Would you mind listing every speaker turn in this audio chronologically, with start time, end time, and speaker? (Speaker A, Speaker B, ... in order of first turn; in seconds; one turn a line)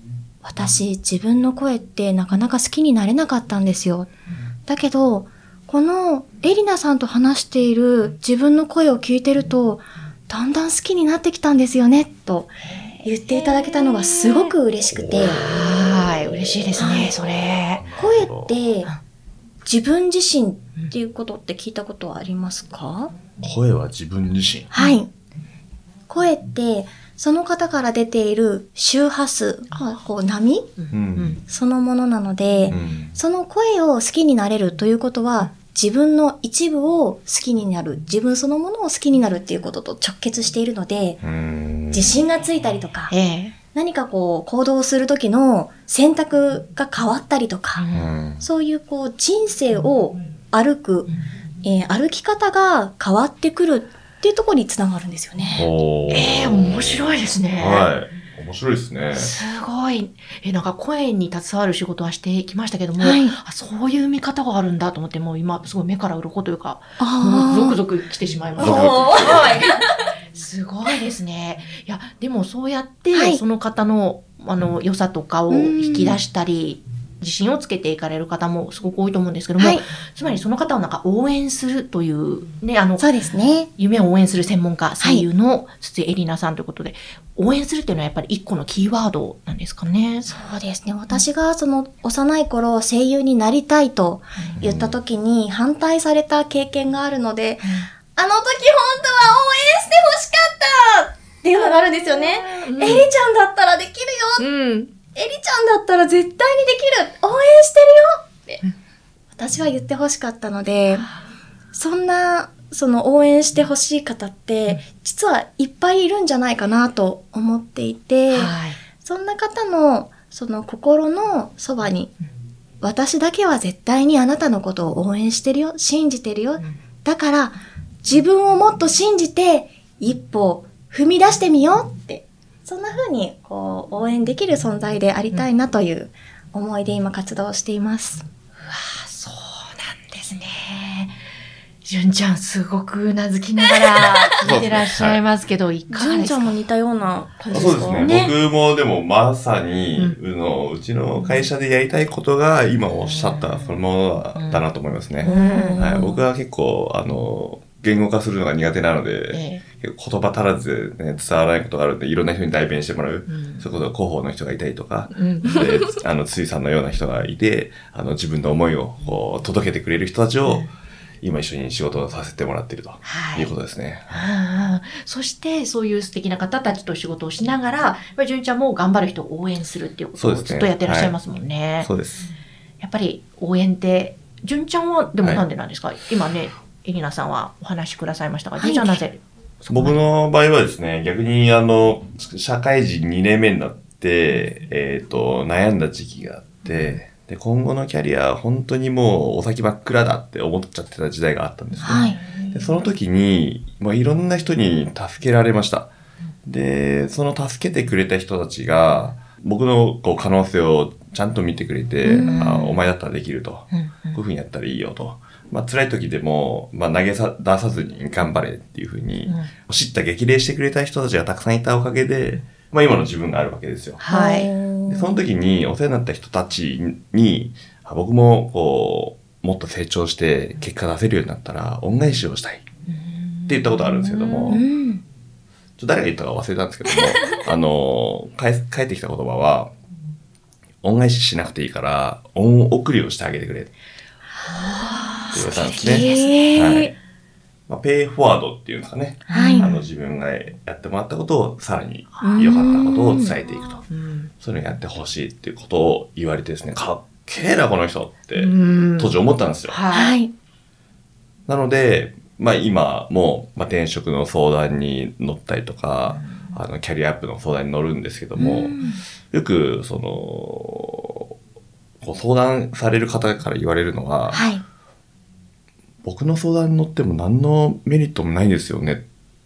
Speaker A: 0.4-4.1
Speaker A: 4.7-15.4
Speaker B: 12.7-14.5
Speaker C: 14.9-15.9
Speaker B: 15.2-17.8
Speaker A: 16.8-17.1
Speaker C: 17.8-18.6
Speaker A: 17.9-18.9
Speaker A: 19.6-23.1
Speaker C: 23.4-24.7
Speaker A: 24.7-25.1
Speaker A: 26.1-30.8
Speaker B: 30.8-31.4
Speaker C: 30.9-31.4
Speaker A: 31.4-41.2
Speaker C: 32.7-33.1
Speaker C: 41.2-42.2
Speaker A: 41.9-43.1
Speaker B: 43.1-43.5
Speaker A: 43.7-47.9
Speaker B: 47.7-48.1
Speaker C: 47.9-48.5
Speaker A: 48.4-51.1
Speaker A: 51.6-55.7
Speaker C: 55.5-59.3
Speaker B: 56.1-57.9
Speaker B: 59.1-69.7
Speaker A: 63.0-63.4
Speaker A: 67.0-67.8
Speaker C: 68.6-69.6
Speaker A: 68.6-69.7
Speaker B: 70.3-83.0
Speaker A: 73.1-73.4
Speaker A: 75.5-76.2
Speaker A: 79.6-79.8
Speaker A: 83.0-83.7
Speaker B: 83.8-90.3
Speaker A: 85.0-85.2
Speaker A: 90.2-104.5
Speaker C: 94.6-95.0
Speaker B: 97.6-97.9
Speaker B: 101.5-103.1
Speaker B: 104.4-104.9
Speaker A: 105.1-108.6
Speaker A: 109.3-111.1
Speaker B: 110.9-111.2
Speaker A: 111.7-122.1
Speaker B: 118.3-118.8
Speaker A: 122.8-138.2
Speaker B: 138.6-141.1
Speaker B: 141.8-146.6
Speaker C: 144.4-145.2
Speaker A: 145.9-148.2
Speaker B: 147.4-148.3
Speaker C: 147.5-170.7
Speaker B: 153.1-153.8
Speaker B: 154.3-154.6
Speaker B: 155.2-155.9
Speaker A: 155.2-156.2
Speaker B: 159.3-159.6
Speaker B: 163.3-163.7
Speaker B: 165.1-165.7
Speaker C: 171.2-174.3
Speaker B: 173.0-173.5
Speaker B: 174.1-181.9
Speaker C: 180.2-181.1
Speaker C: 181.8-182.3
Speaker B: 182.8-190.0
Speaker A: 188.6-189.0
Speaker C: 189.7-205.9
Speaker A: 201.8-202.2
Speaker B: 201.9-202.5
Speaker C: 206.4-224.0
Speaker A: 212.0-212.3
Speaker B: 212.1-212.8
Speaker B: 213.7-214.2
Speaker B: 219.3-219.5
Speaker B: 224.0-224.5
Speaker A: 224.1-225.2
Speaker C: 224.9-232.6
Speaker B: 232.9-234.6
Speaker C: 233.5-234.6
Speaker A: 234.5-235.0
Speaker C: 235.8-239.7
Speaker C: 240.8-243.7
Speaker B: 244.4-246.8
Speaker C: 245.3-246.9
Speaker A: 245.8-246.9
Speaker C: 247.7-253.8
Speaker A: 249.3-249.7
Speaker B: 249.3-249.8
Speaker B: 252.2-252.5
Speaker A: 252.2-253.3
Speaker B: 253.9-254.3
Speaker C: 254.4-259.8
Speaker B: 258.3-260.2
Speaker A: 259.9-260.3
Speaker C: 261.5-268.8
Speaker B: 266.2-266.5
Speaker A: 268.4-269.0
Speaker C: 269.3-271.3
Speaker C: 272.0-274.4
Speaker A: 274.3-274.6
Speaker C: 276.0-279.0